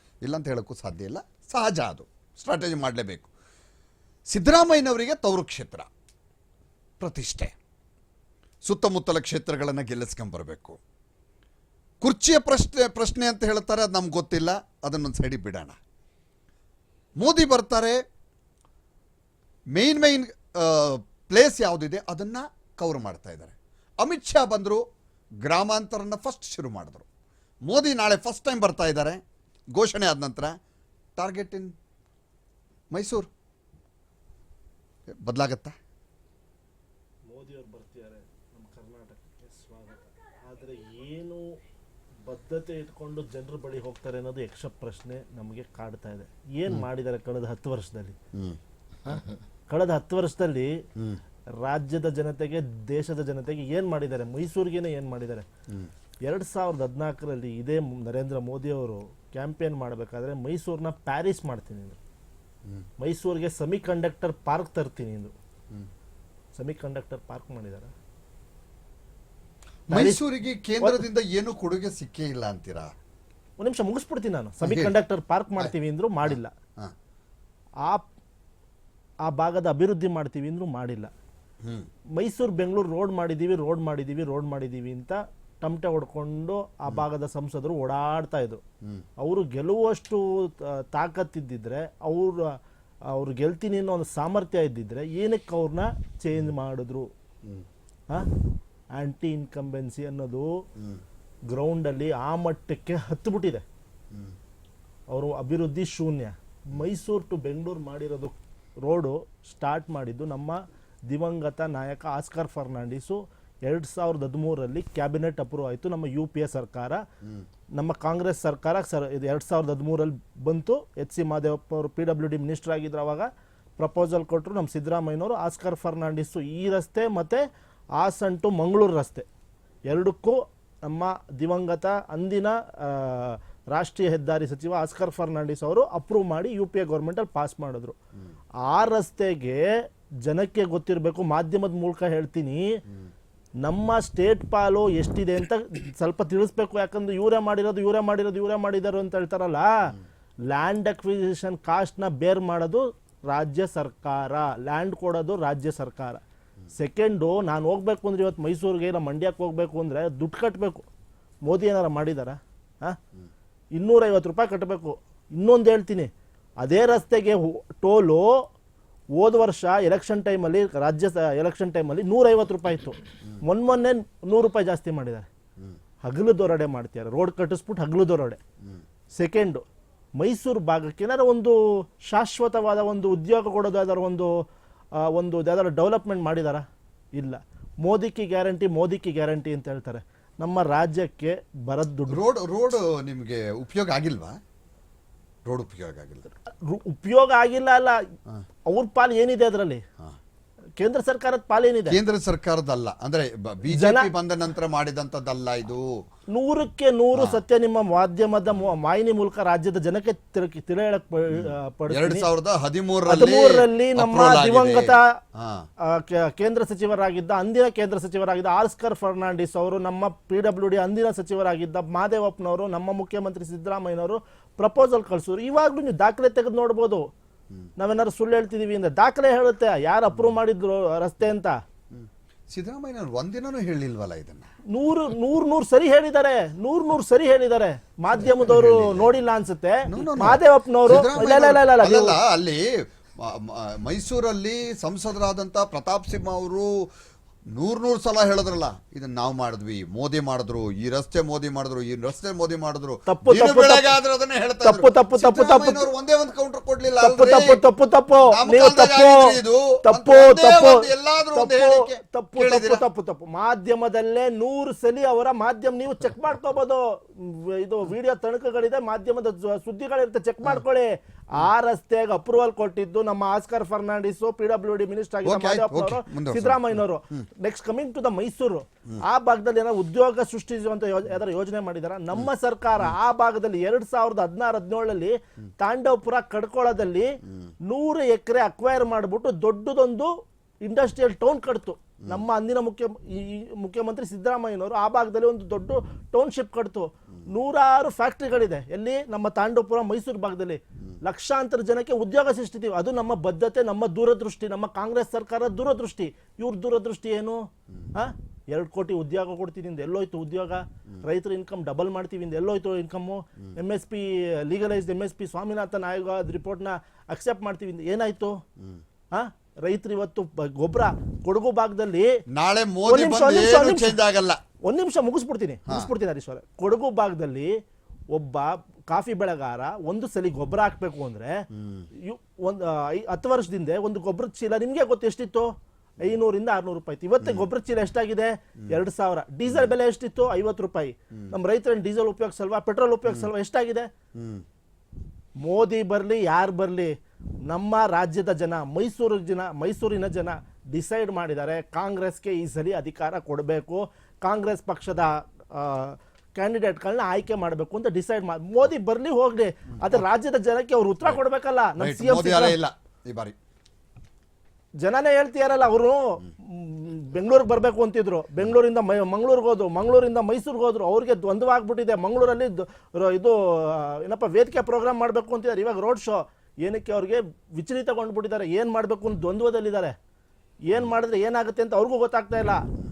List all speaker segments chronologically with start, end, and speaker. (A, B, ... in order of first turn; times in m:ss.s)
0:00.2-0:03.3 A
0:04.3-0:05.9 A
0:07.0-0:07.6 A
0:08.6-0:10.8 A
0:12.0-0:15.8 A
0:17.2-0:18.0 A
0:19.7-0:24.8 A
0:25.4-0:27.1 A
0:27.7-0:29.2 A
0:29.7-0:30.5 A
0:31.2-0:31.7 A
0:32.9-0:33.3 A
0:35.2-0:35.7 A
0:37.3-0:41.5 B
0:42.2-0:48.2 B
0:48.3-0:48.6 A
0:49.7-0:50.8 B
0:51.6-0:55.5 B
0:56.2-1:02.0 B
1:03.0-1:05.3 B
1:06.6-1:07.9 B
1:09.9-1:10.2 B
1:09.9-1:12.9 A
1:13.6-1:16.5 B
1:14.6-1:14.9 A
1:16.3-1:16.9 A
1:19.2-1:21.1 B
1:21.6-1:21.9 A
1:22.2-1:28.6 B
1:29.2-1:32.6 B
1:33.1-1:37.1 B
1:38.9-1:40.6 B
1:40.8-1:41.0 A
1:41.5-1:43.6 B
1:44.1-1:44.4 A
1:45.1-1:57.0 B
1:57.8-2:07.4 B
2:08.0-2:09.3 B
2:09.9-2:18.0 B
2:18.6-2:19.7 B
2:20.2-2:22.8 B
2:23.6-2:30.0 B
2:30.5-2:36.2 B
2:36.7-2:40.9 B
2:41.4-2:43.0 B
2:43.7-2:46.1 B
2:46.6-2:48.4 B
2:49.2-2:55.3 B
2:56.0-2:58.4 B
2:59.2-2:59.6 B
3:00.2-3:04.3 B
3:05.0-3:06.6 B
3:07.2-3:12.2 B
3:12.1-3:14.4 A
3:15.5-3:16.3 A
3:16.6-3:18.0 B
3:18.7-3:19.8 B
3:20.8-3:22.0 B
3:21.9-3:25.9 A
3:23.7-3:24.1 B
3:26.3-3:32.2 B
3:27.1-3:27.4 A
3:31.3-3:35.7 A
3:33.1-3:35.2 B
3:35.8-3:47.1 B
3:47.8-3:51.6 B
3:51.9-3:54.5 A
3:54.7-4:02.2 B
3:58.1-3:59.1 A
3:59.9-4:06.9 A
4:07.5-4:17.6 A
4:13.1-4:14.0 B
4:14.6-4:15.9 B
4:17.0-4:50.1 B
4:18.2-4:22.8 A
4:35.2-4:36.9 A
4:50.6-5:07.4 B
5:07.9-5:18.4 B
5:19.1-5:22.2 B
5:22.3-5:24.4 A
5:22.9-5:24.0 B
5:24.6-5:27.6 B
5:28.1-5:43.9 B
5:31.5-5:31.9 A
5:37.2-5:37.5 A
5:39.5-5:39.7 A
5:44.2-5:44.4 A
5:45.4-5:46.9 B
5:47.5-6:02.6 B
6:01.8-6:03.4 A
6:04.8-6:19.9 B
6:20.7-6:22.7 B